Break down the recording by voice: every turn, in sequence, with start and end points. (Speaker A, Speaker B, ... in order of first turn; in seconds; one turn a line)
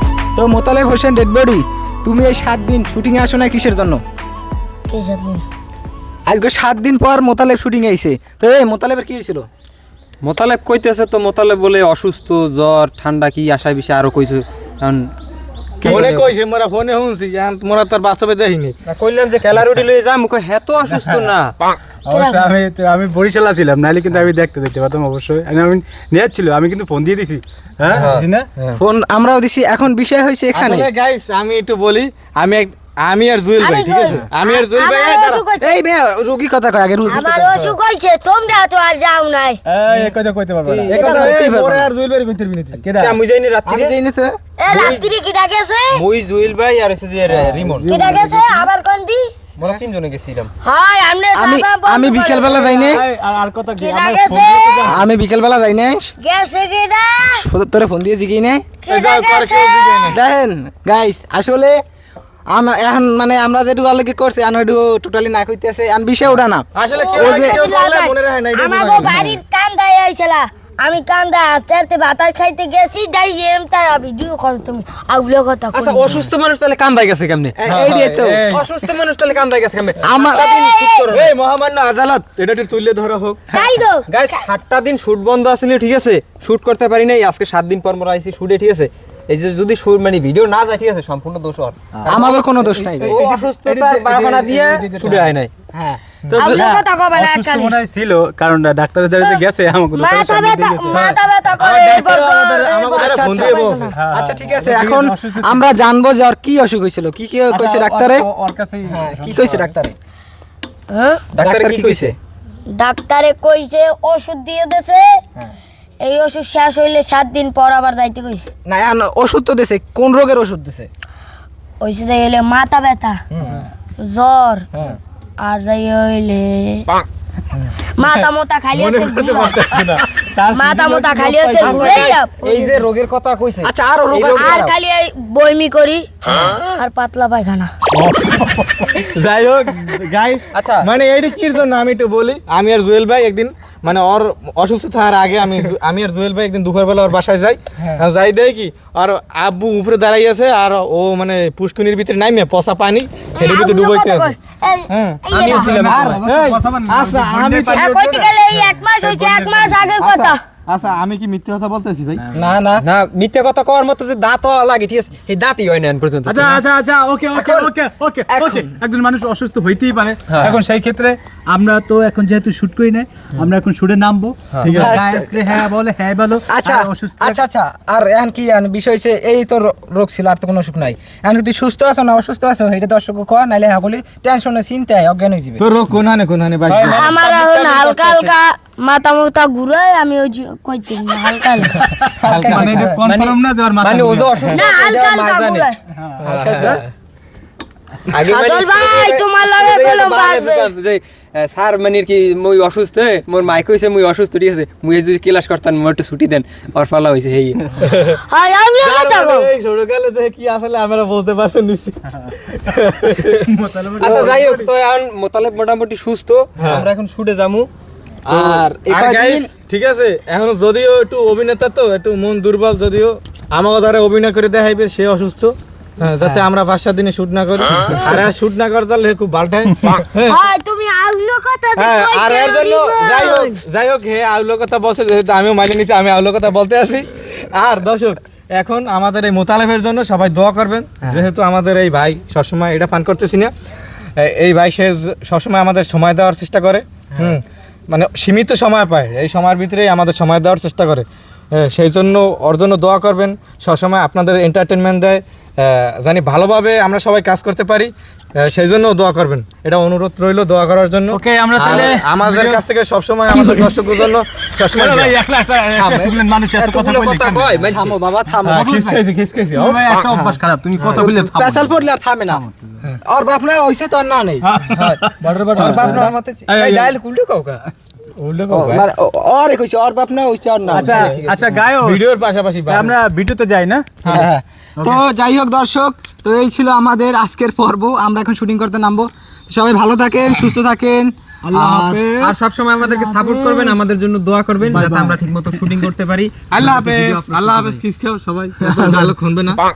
Speaker A: 0.3-4.0
Speaker B: 4.9-5.4
Speaker A: 6.2-9.5
Speaker C: 10.2-15.1
Speaker D: 15.8-16.1
Speaker C: 15.8-16.3
Speaker E: 15.8-18.8
Speaker C: 18.9-21.5
Speaker D: 20.9-21.3
Speaker D: 22.1-28.5
Speaker B: 22.1-22.4
Speaker C: 27.9-28.3
Speaker A: 28.8-30.9
Speaker E: 30.5-35.4
Speaker B: 33.6-35.8
Speaker A: 35.6-37.5
Speaker B: 37.1-39.6
Speaker D: 39.6-40.9
Speaker C: 40.6-41.0
Speaker A: 40.9-41.9
Speaker E: 40.9-42.8
Speaker D: 42.8-43.2
Speaker C: 43.0-44.0
Speaker A: 43.6-44.4
Speaker B: 44.6-46.0
Speaker C: 44.7-45.0
Speaker C: 45.9-48.0
Speaker D: 47.3-48.7
Speaker B: 47.9-49.3
Speaker C: 49.6-50.5
Speaker B: 50.6-52.5
Speaker A: 51.3-53.0
Speaker D: 52.4-55.1
Speaker B: 53.8-54.8
Speaker A: 54.8-56.1
Speaker B: 56.2-57.4
Speaker A: 57.2-58.6
Speaker B: 58.8-60.0
Speaker E: 58.9-60.2
Speaker A: 60.1-61.8
Speaker A: 62.5-67.6
Speaker E: 66.7-69.4
Speaker B: 66.9-76.2
Speaker C: 75.7-77.5
Speaker A: 77.6-78.5
Speaker E: 77.7-78.7
Speaker C: 78.5-81.3
Speaker A: 80.0-80.5
Speaker B: 80.2-81.0
Speaker E: 81.1-83.5
Speaker B: 83.5-84.3
Speaker C: 84.1-92.3
Speaker D: 92.0-95.3
Speaker A: 92.1-93.2
Speaker C: 93.0-95.5
Speaker A: 95.7-96.0
Speaker E: 96.2-96.6
Speaker D: 96.3-101.0
Speaker B: 96.3-97.7
Speaker B: 99.9-103.9
Speaker C: 100.9-101.2
Speaker E: 101.6-103.9
Speaker A: 103.0-108.3
Speaker D: 103.9-105.7
Speaker D: 107.5-109.7
Speaker A: 108.9-110.0
Speaker B: 110.9-111.2
Speaker C: 111.3-112.1
Speaker A: 111.4-112.1
Speaker B: 112.7-115.2
Speaker B: 116.0-118.4
Speaker A: 118.7-120.9
Speaker B: 121.8-123.2
Speaker A: 123.3-123.6
Speaker B: 124.0-124.7
Speaker B: 125.4-126.9
Speaker B: 128.0-129.6
Speaker E: 128.0-132.1
Speaker B: 130.5-132.8
Speaker C: 131.6-134.6
Speaker A: 133.6-134.7
Speaker B: 134.4-137.7
Speaker D: 138.1-138.9
Speaker E: 138.9-154.3
Speaker C: 140.5-140.8
Speaker B: 153.3-155.8
Speaker E: 154.9-157.9
Speaker C: 155.3-156.2
Speaker D: 155.6-160.0
Speaker B: 157.7-160.4
Speaker E: 160.0-162.2
Speaker A: 162.3-162.8
Speaker C: 162.8-166.6
Speaker D: 166.2-177.4
Speaker A: 167.3-167.7
Speaker A: 168.3-168.7
Speaker C: 170.3-170.6
Speaker C: 174.5-174.9
Speaker E: 174.6-175.0
Speaker A: 174.7-175.6
Speaker A: 176.5-185.6
Speaker E: 185.6-187.1
Speaker C: 186.7-188.3
Speaker B: 186.9-191.8
Speaker D: 191.8-194.6
Speaker A: 192.0-193.0
Speaker C: 192.3-195.7
Speaker B: 194.5-195.8
Speaker D: 195.9-196.5
Speaker C: 196.2-196.8
Speaker A: 196.2-196.8
Speaker C: 198.1-207.8
Speaker B: 198.2-200.7
Speaker E: 207.8-208.2
Speaker B: 208.3-209.5
Speaker E: 208.8-213.5
Speaker D: 213.4-214.4
Speaker C: 214.0-217.7
Speaker E: 214.0-214.7
Speaker E: 216.6-216.9
Speaker A: 218.2-219.5
Speaker E: 218.3-230.4
Speaker B: 230.2-233.6
Speaker E: 231.8-243.5
Speaker E: 244.2-265.2
Speaker D: 261.1-262.6
Speaker D: 263.4-264.0
Speaker D: 264.7-267.7
Speaker C: 265.7-268.0
Speaker A: 267.7-268.6
Speaker D: 268.3-269.0
Speaker E: 268.4-269.8
Speaker D: 269.5-272.8
Speaker A: 270.0-270.4
Speaker C: 270.8-271.1
Speaker A: 270.9-272.4
Speaker A: 273.0-274.5
Speaker D: 274.4-277.0
Speaker C: 274.7-277.6
Speaker A: 275.2-276.1
Speaker E: 278.2-278.9
Speaker A: 278.5-281.2
Speaker D: 280.7-282.1
Speaker C: 280.8-281.5
Speaker E: 281.8-282.9
Speaker D: 282.6-284.2
Speaker A: 284.1-291.1
Speaker D: 291.4-293.2
Speaker C: 291.5-297.8
Speaker B: 293.3-293.7
Speaker D: 294.6-295.8
Speaker E: 296.5-299.6
Speaker A: 298.7-299.0